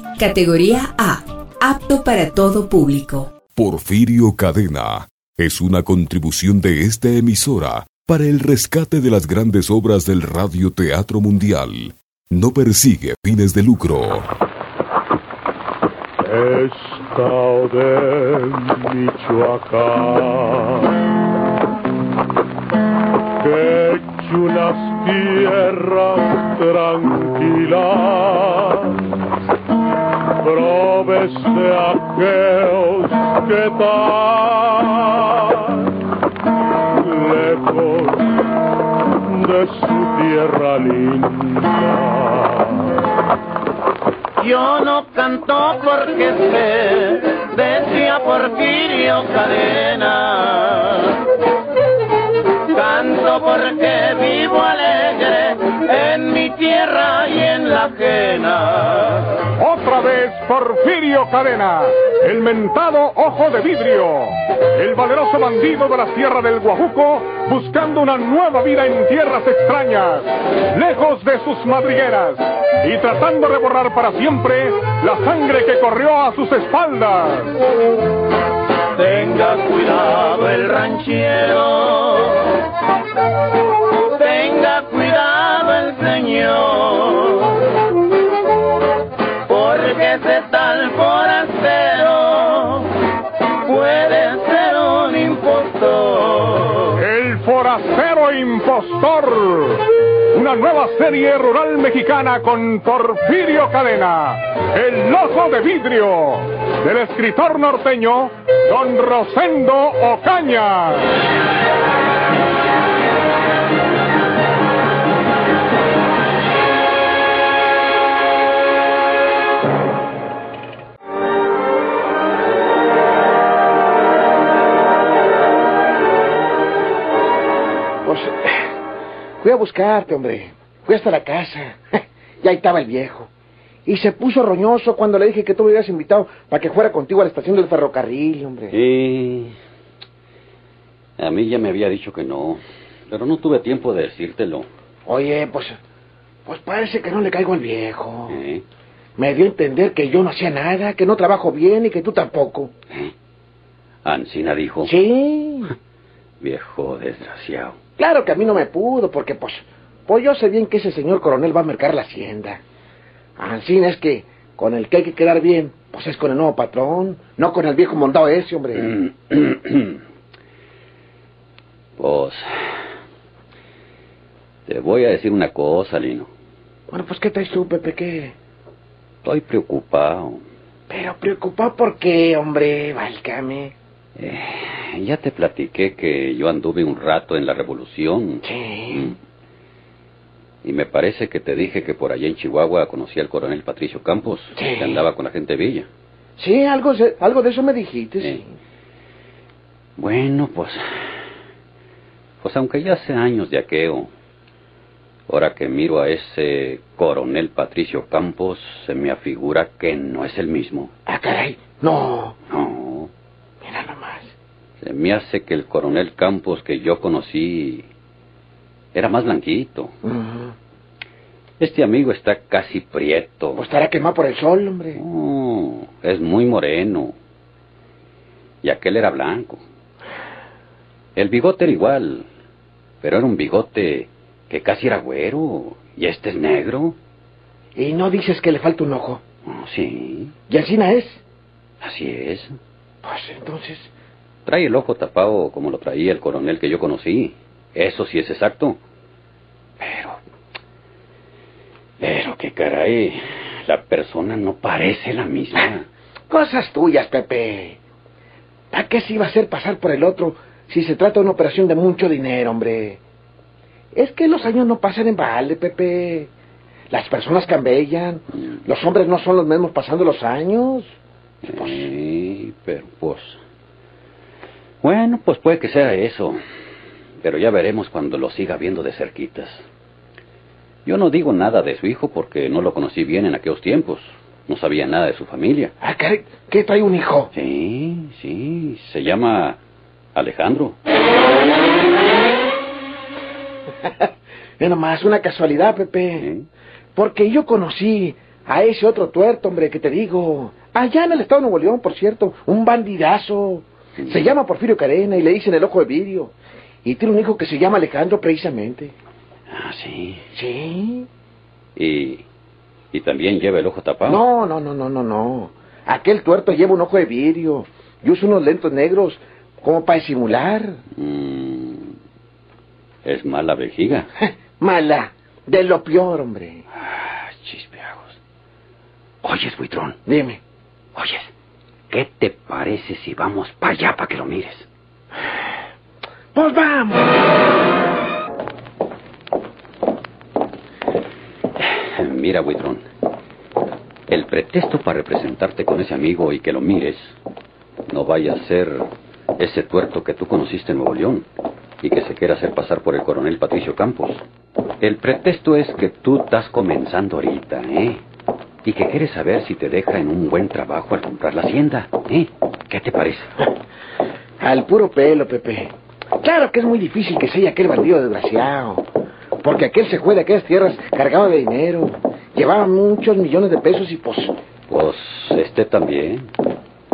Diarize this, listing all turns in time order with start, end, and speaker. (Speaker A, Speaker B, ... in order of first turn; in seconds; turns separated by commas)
Speaker A: 0.2-3.4, Speaker B: 3.5-14.3, Speaker C: 16.2-20.8, Speaker C: 23.4-29.0, Speaker C: 30.4-35.9, Speaker C: 37.0-38.2, Speaker C: 39.2-42.9, Speaker D: 44.4-51.1, Speaker D: 52.7-59.4, Speaker E: 59.5-77.6, Speaker D: 79.0-82.5, Speaker D: 84.1-87.6, Speaker D: 89.5-92.9, Speaker D: 93.6-97.0, Speaker E: 97.0-111.1, Speaker F: 128.0-128.7, Speaker F: 129.4-133.3, Speaker F: 133.8-138.7, Speaker G: 138.7-139.5, Speaker G: 141.2-144.7, Speaker F: 145.1-145.8, Speaker F: 146.4-148.4, Speaker G: 148.3-148.6, Speaker F: 149.2-152.7, Speaker G: 154.0-154.9, Speaker F: 154.8-155.7, Speaker G: 156.4-157.8, Speaker F: 158.0-162.6, Speaker F: 163.4-168.9, Speaker G: 168.8-170.0, Speaker G: 172.0-172.7, Speaker G: 174.7-176.3, Speaker F: 176.9-178.3, Speaker G: 179.2-180.4, Speaker F: 180.9-183.7, Speaker G: 184.2-189.1, Speaker F: 188.4-189.1, Speaker G: 190.6-195.9, Speaker F: 194.6-195.0, Speaker F: 196.4-198.5, Speaker G: 200.0-201.0, Speaker G: 202.4-204.1, Speaker G: 205.3-210.9, Speaker F: 211.1-212.3, Speaker G: 212.5-213.1, Speaker F: 213.6-214.3, Speaker G: 214.8-217.8, Speaker G: 218.9-219.9, Speaker F: 220.0-220.5, Speaker G: 221.6-223.7, Speaker F: 223.6-225.0, Speaker G: 224.9-227.1, Speaker G: 228.6-229.6, Speaker G: 231.2-232.3, Speaker G: 233.0-236.9, Speaker F: 237.7-239.2, Speaker G: 239.4-240.3, Speaker F: 240.5-241.2, Speaker G: 241.8-242.6, Speaker F: 243.0-243.9, Speaker G: 244.4-248.8, Speaker G: 249.8-250.1, Speaker G: 252.0-255.8, Speaker F: 256.3-257.8, Speaker F: 258.7-263.0, Speaker F: 263.9-266.3, Speaker F: 266.9-270.9, Speaker G: 271.4-273.4, Speaker F: 271.5-271.8, Speaker G: 274.8-276.4, Speaker G: 277.2-279.6, Speaker G: 280.9-285.7, Speaker F: 285.8-287.3, Speaker G: 287.3-289.6, Speaker G: 290.1-290.8, Speaker F: 294.6-296.3, Speaker G: 296.2-296.4, Speaker F: 296.9-306.3, Speaker G: 304.0-304.3, Speaker F: 306.8-308.9, Speaker G: 309.5-310.2, Speaker F: 310.3-311.1, Speaker G: 311.8-312.2, Speaker G: 312.9-314.2, Speaker F: 314.1-320.8, Speaker G: 320.9-321.9, Speaker G: 323.0-324.1, Speaker F: 324.2-326.6, Speaker G: 326.9-328.1, Speaker G: 329.2-329.9, Speaker F: 330.1-330.4, Speaker G: 330.9-331.3, Speaker G: 331.9-334.7, Speaker F: 336.3-337.1, Speaker G: 341.6-342.8, Speaker G: 344.1-347.1, Speaker G: 347.9-351.3, Speaker G: 351.8-354.2, Speaker G: 354.8-358.0, Speaker G: 358.6-363.3, Speaker F: 364.4-368.9, Speaker F: 369.4-374.4, Speaker G: 374.7-376.3